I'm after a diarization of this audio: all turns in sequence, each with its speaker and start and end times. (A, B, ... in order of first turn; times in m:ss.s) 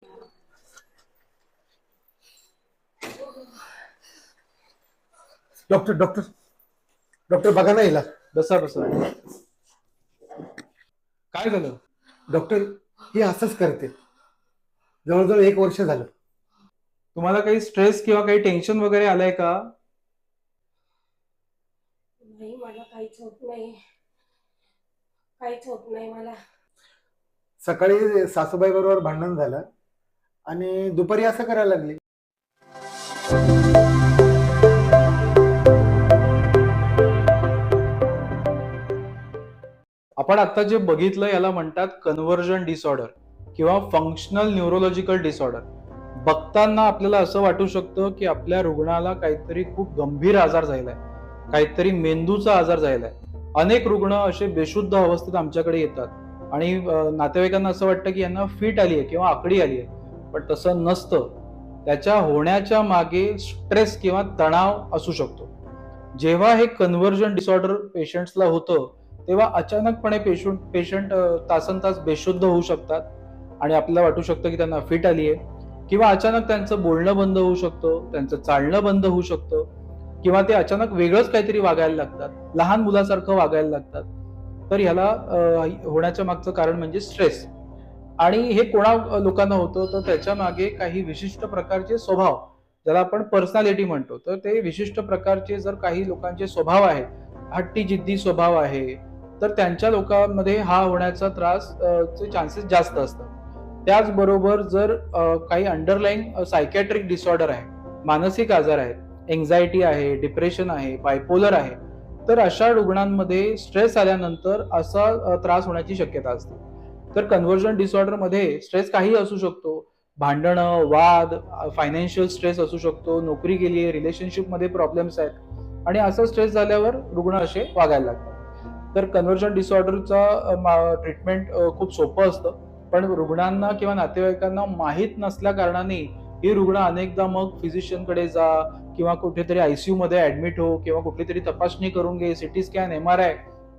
0:05.7-0:06.3 A
0:07.3-0:08.1 A
0:08.3-0:09.1 B
0:11.3-0:11.8 B
0:12.3-0:13.9 A
0:15.0-0:16.1 A
0:17.1-0:19.7 B
0:22.2-0:23.8 C
0:25.4-0:26.4 C
0:27.6-0:29.6 A
0:30.5-0:32.0 A
0:40.2-1:05.5 B
1:06.1-1:13.1 B
1:13.6-1:19.7 B
1:20.2-1:24.1 B
1:24.7-1:27.5 B
1:28.2-1:43.3 B
1:43.8-1:56.6 B
1:57.1-2:08.4 B
2:08.9-2:23.4 B